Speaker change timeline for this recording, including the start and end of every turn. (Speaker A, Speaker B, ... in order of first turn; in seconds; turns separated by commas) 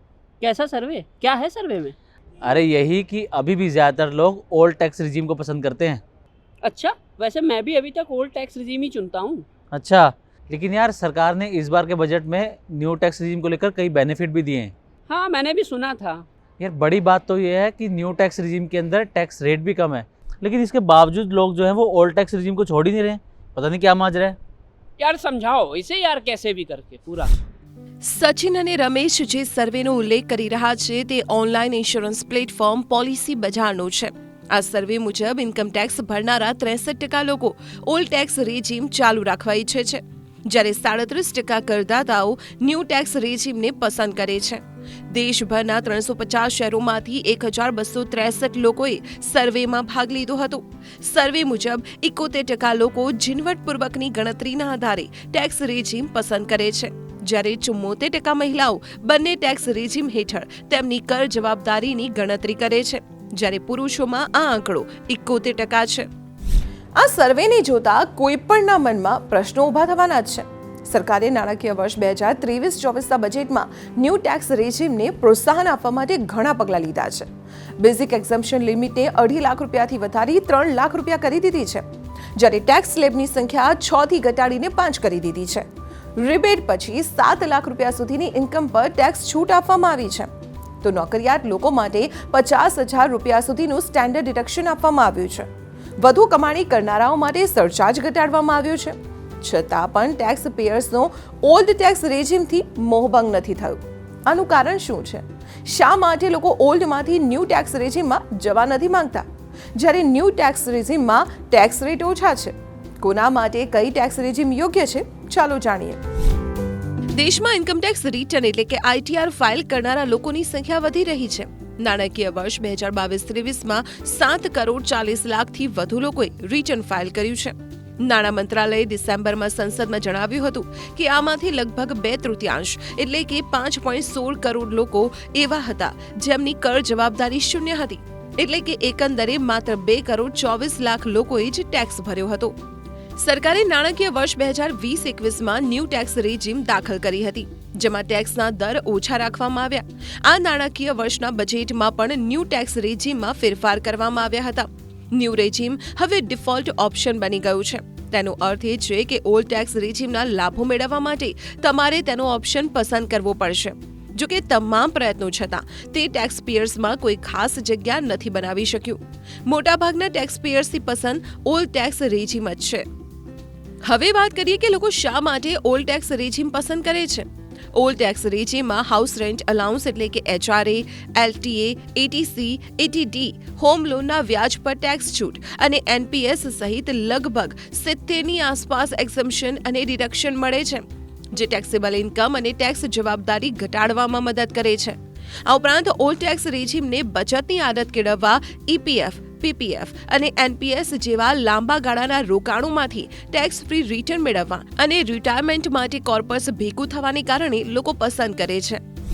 Speaker A: 0.4-1.9, Speaker B: 2.4-6.0, Speaker A: 6.6-9.4, Speaker B: 9.7-14.7, Speaker A: 15.1-16.2, Speaker B: 16.6-24.4, Speaker A: 25.0-27.3, Speaker C: 28.0-66.1, Speaker C: 67.0-81.8, Speaker C: 82.3-90.3, Speaker C: 90.8-116.0, Speaker C: 117.1-142.6, Speaker C: 143.2-172.8, Speaker C: 173.8-208.8